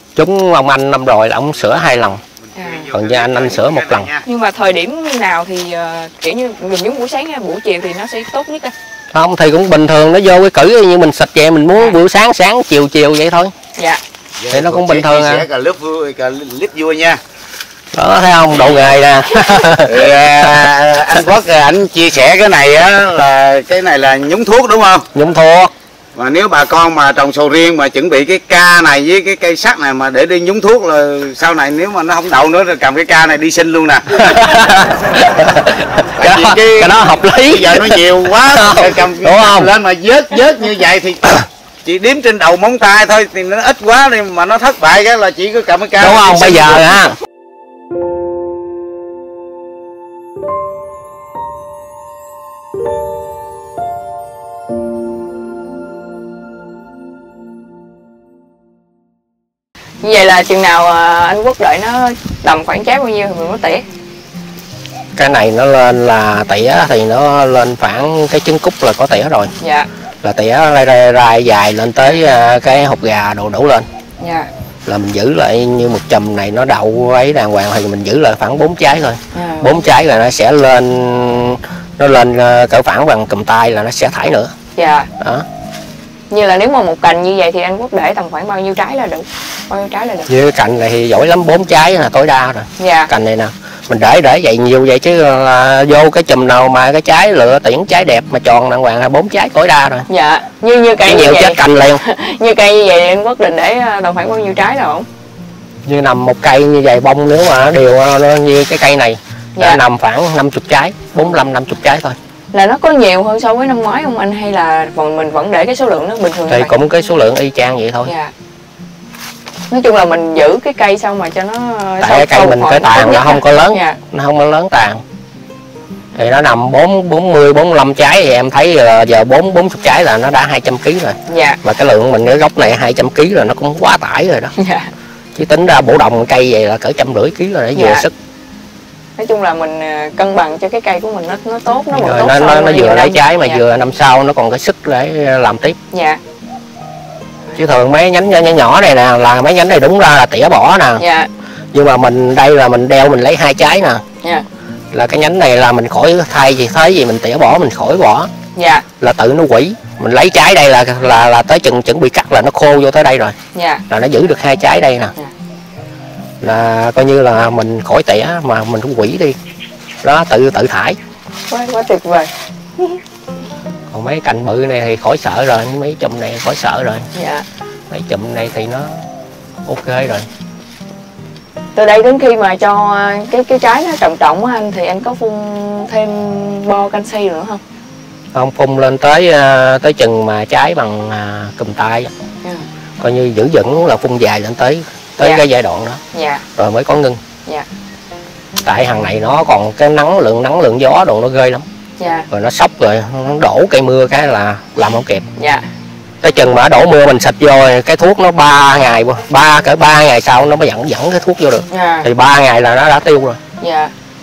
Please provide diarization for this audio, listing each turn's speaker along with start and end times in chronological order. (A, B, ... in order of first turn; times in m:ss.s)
0:00.2-0:02.2 A
0:02.5-0:04.2 B
0:02.5-0:02.9 C
0:02.9-0:04.1 A
0:04.2-0:08.7 C
0:09.1-0:13.5 A
0:13.8-0:14.0 C
0:14.4-0:17.2 B
0:14.5-0:15.4 A
0:17.9-0:20.6 A
0:19.8-0:25.1 B
0:25.1-0:25.7 A
0:26.2-0:34.3 B
0:34.2-0:39.7 A
0:36.2-0:36.9 B
0:37.4-0:46.9 B
0:46.0-0:47.1 A
1:00.0-1:03.8 C
1:05.2-1:09.5 A
1:09.6-1:09.9 C
1:10.2-1:13.8 A
1:14.2-1:14.5 C
1:14.8-1:24.5 A
1:19.3-1:19.7 C
1:24.8-1:25.1 C
1:25.2-1:25.4 A
1:26.3-1:30.3 C
1:30.3-1:40.1 A
1:32.8-1:33.1 C
1:40.1-1:45.1 C
1:41.0-1:42.0 A
1:45.8-1:52.2 A
1:49.6-1:49.8 C
1:52.5-1:56.8 C
1:56.5-1:58.1 A
1:58.0-1:58.3 C
1:59.7-2:04.0 C
2:02.0-2:05.0 A
2:06.2-2:14.5 A
2:11.3-2:11.6 C
2:14.6-2:14.9 C
2:15.3-2:18.1 A
2:17.7-2:18.0 C
2:19.2-2:23.6 C
2:21.9-2:25.8 A
2:25.9-2:26.2 C
2:27.5-2:31.0 A
2:31.0-2:31.3 C
2:31.7-2:34.0 A
2:34.9-2:38.3 A
2:38.6-2:38.9 C
2:39.0-2:43.3 A
2:43.5-2:43.8 C
2:43.9-2:45.1 A
2:46.4-2:49.4 A
2:50.0-2:51.0 A
2:51.5-2:53.0 C
2:53.9-2:57.0 A
2:57.1-2:57.4 C
2:57.9-2:59.0 A
2:59.6-3:00.3 A
3:01.7-3:07.6 C
3:08.3-3:12.1 A
3:13.0-3:16.0 A
3:16.1-3:16.4 C
3:16.6-3:17.2 A
3:18.6-3:21.6 A
3:22.0-3:22.3 C
3:22.3-3:25.2 A
3:25.4-3:25.6 C
3:26.2-3:33.4 A
3:31.7-3:32.1 C
3:33.6-3:33.9 C